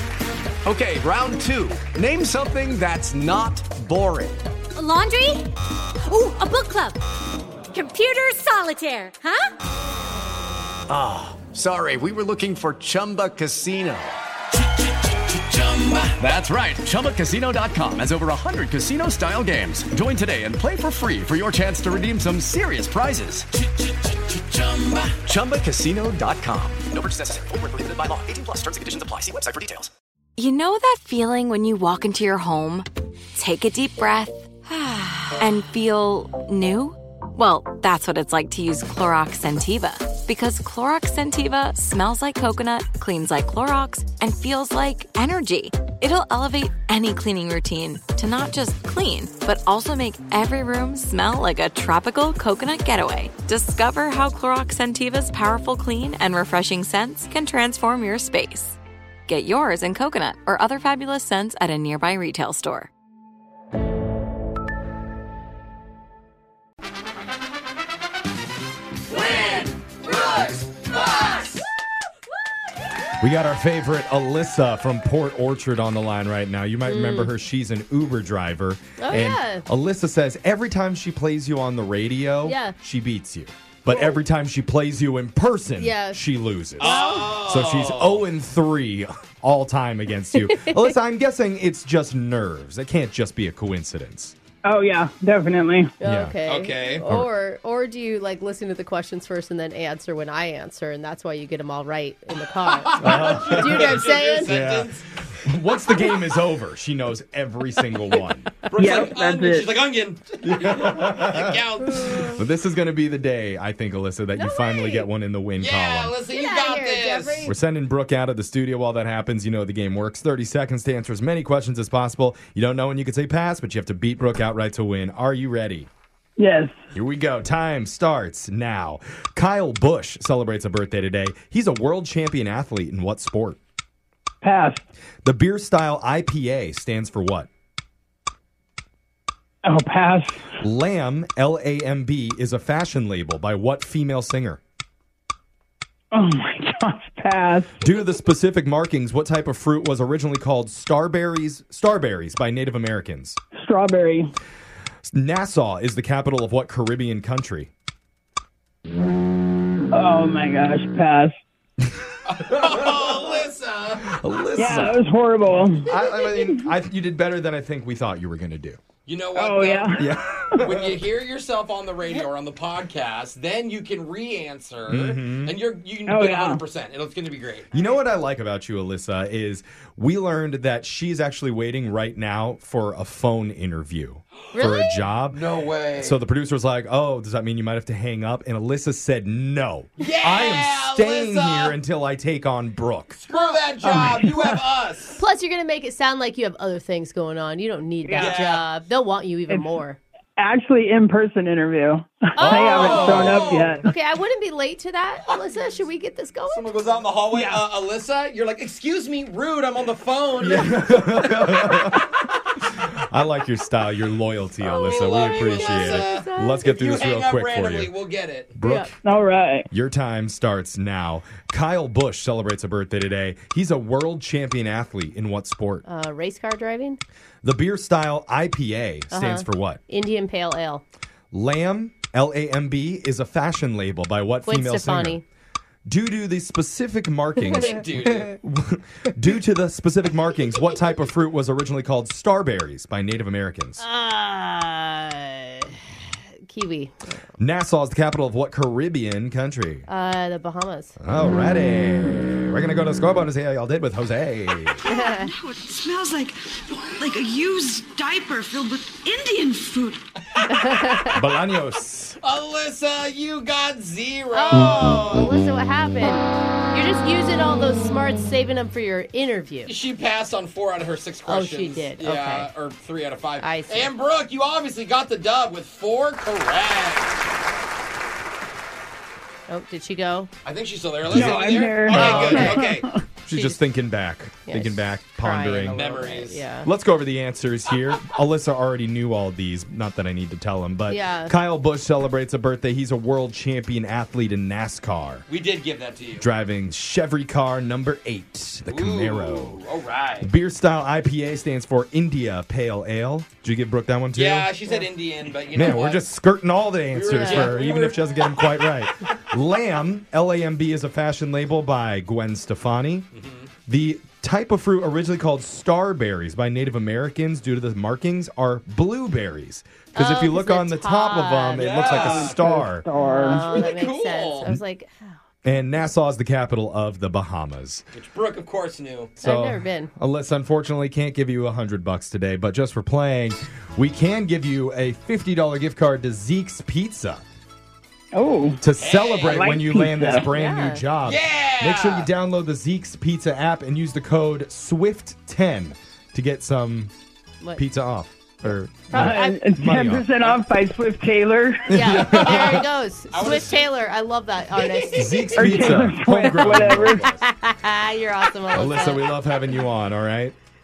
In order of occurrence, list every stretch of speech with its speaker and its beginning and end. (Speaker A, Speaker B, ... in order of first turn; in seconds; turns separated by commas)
Speaker A: 0.6-4.4, Speaker B: 4.8-5.4, Speaker B: 6.0-7.0, Speaker B: 7.7-9.5, Speaker A: 10.9-14.1, Speaker A: 15.7-23.5, Speaker A: 24.6-29.9, Speaker C: 30.4-62.9, Speaker D: 69.1-71.6, Speaker E: 73.2-94.3, Speaker F: 76.8-77.3, Speaker F: 79.0-79.6, Speaker F: 82.4-82.7, Speaker F: 85.8-86.2, Speaker D: 86.8-88.2, Speaker F: 86.8-87.4, Speaker F: 90.4-90.9, Speaker G: 94.6-95.9, Speaker F: 96.0-104.5, Speaker E: 96.0-96.3, Speaker D: 96.4-97.0, Speaker E: 97.0-97.3, Speaker D: 102.8-105.0, Speaker E: 103.0-108.5, Speaker D: 108.7-112.3, Speaker G: 108.8-109.7, Speaker E: 110.4-116.2, Speaker F: 114.3-115.1, Speaker D: 115.6-117.5, Speaker F: 116.3-117.5, Speaker E: 117.5-125.9, Speaker G: 126.4-126.7, Speaker E: 126.9-133.6, Speaker G: 134.4-134.8, Speaker E: 135.2-137.5, Speaker G: 139.6-140.4, Speaker E: 140.6-144.6, Speaker G: 146.1-147.8, Speaker E: 147.8-153.4, Speaker G: 153.6-154.3, Speaker E: 155.1-157.7, Speaker G: 159.9-161.3, Speaker D: 162.2-164.1, Speaker E: 164.1-165.0, Speaker G: 164.6-166.5, Speaker E: 165.8-168.8, Speaker D: 169.1-170.1, Speaker G: 169.3-170.5, Speaker E: 169.9-170.9, Speaker D: 170.6-177.8, Speaker E: 174.9-175.5, Speaker G: 176.1-176.6, Speaker E: 177.7-193.2, Speaker F: 184.5-185.0, Speaker D: 185.3-186.2, Speaker D: 190.0-191.8, Speaker D: 193.2-195.2, Speaker F: 193.3-194.3, Speaker F: 195.2-200.0, Speaker G: 198.0-198.3, Speaker D: 198.1-198.6, Speaker G: 200.4-203.9, Speaker F: 202.3-206.8, Speaker E: 202.4-203.2, Speaker D: 202.5-203.8, Speaker D: 206.5-211.5, Speaker E: 210.4-212.1, Speaker E: 212.8-217.9, Speaker F: 214.6-216.7, Speaker D: 214.7-218.5, Speaker E: 218.6-218.9, Speaker F: 218.6-218.9, Speaker G: 219.0-219.7, Speaker E: 219.7-225.8, Speaker F: 225.8-227.0, Speaker E: 227.4-229.8, Speaker F: 229.1-230.8, Speaker E: 231.3-235.2, Speaker F: 234.4-235.2, Speaker E: 235.9-243.8, Speaker D: 237.4-238.3, Speaker F: 243.8-245.8, Speaker F: 246.5-247.2, Speaker E: 247.4-249.9, Speaker F: 249.9-250.9, Speaker E: 251.0-254.9, Speaker F: 254.9-255.2, Speaker H: 255.6-256.3, Speaker H: 256.8-259.8, Speaker D: 260.4-260.9, Speaker F: 260.5-261.0, Speaker E: 261.1-262.2, Speaker D: 262.2-265.2, Speaker F: 264.3-269.7, Speaker D: 269.6-277.2, Speaker F: 271.3-272.5, Speaker F: 273.4-273.9, Speaker F: 279.5-280.3, Speaker D: 280.4-282.9, Speaker E: 281.1-281.4, Speaker G: 281.1-283.0, Speaker E: 281.9-282.7, Speaker E: 283.2-285.9, Speaker F: 283.3-283.6, Speaker F: 284.5-286.7, Speaker D: 285.7-286.5, Speaker E: 286.6-295.2, Speaker F: 290.9-291.3, Speaker D: 295.3-296.3, Speaker E: 296.2-299.6, Speaker D: 298.7-300.3, Speaker E: 300.2-304.5, Speaker D: 304.1-306.0, Speaker E: 305.5-313.1, Speaker D: 306.9-308.7, Speaker F: 307.1-307.5, Speaker E: 313.7-322.9, Speaker F: 319.9-321.9, Speaker D: 321.5-322.4, Speaker G: 322.1-323.5, Speaker F: 323.0-325.1, Speaker D: 323.4-324.5, Speaker E: 325.4-327.8, Speaker D: 327.9-329.1, Speaker E: 329.2-337.2, Speaker F: 329.2-329.9, Speaker G: 338.1-338.6, Speaker E: 338.6-346.9, Speaker D: 338.7-339.5, Speaker G: 339.3-340.2, Speaker F: 340.2-340.8, Speaker D: 341.1-342.1, Speaker E: 347.6-350.1, Speaker F: 348.9-349.4, Speaker G: 348.9-351.6, Speaker F: 351.7-359.0, Speaker E: 351.7-352.6, Speaker D: 351.9-352.5, Speaker D: 353.1-353.7, Speaker E: 354.9-357.2, Speaker G: 355.3-357.1, Speaker E: 358.5-360.3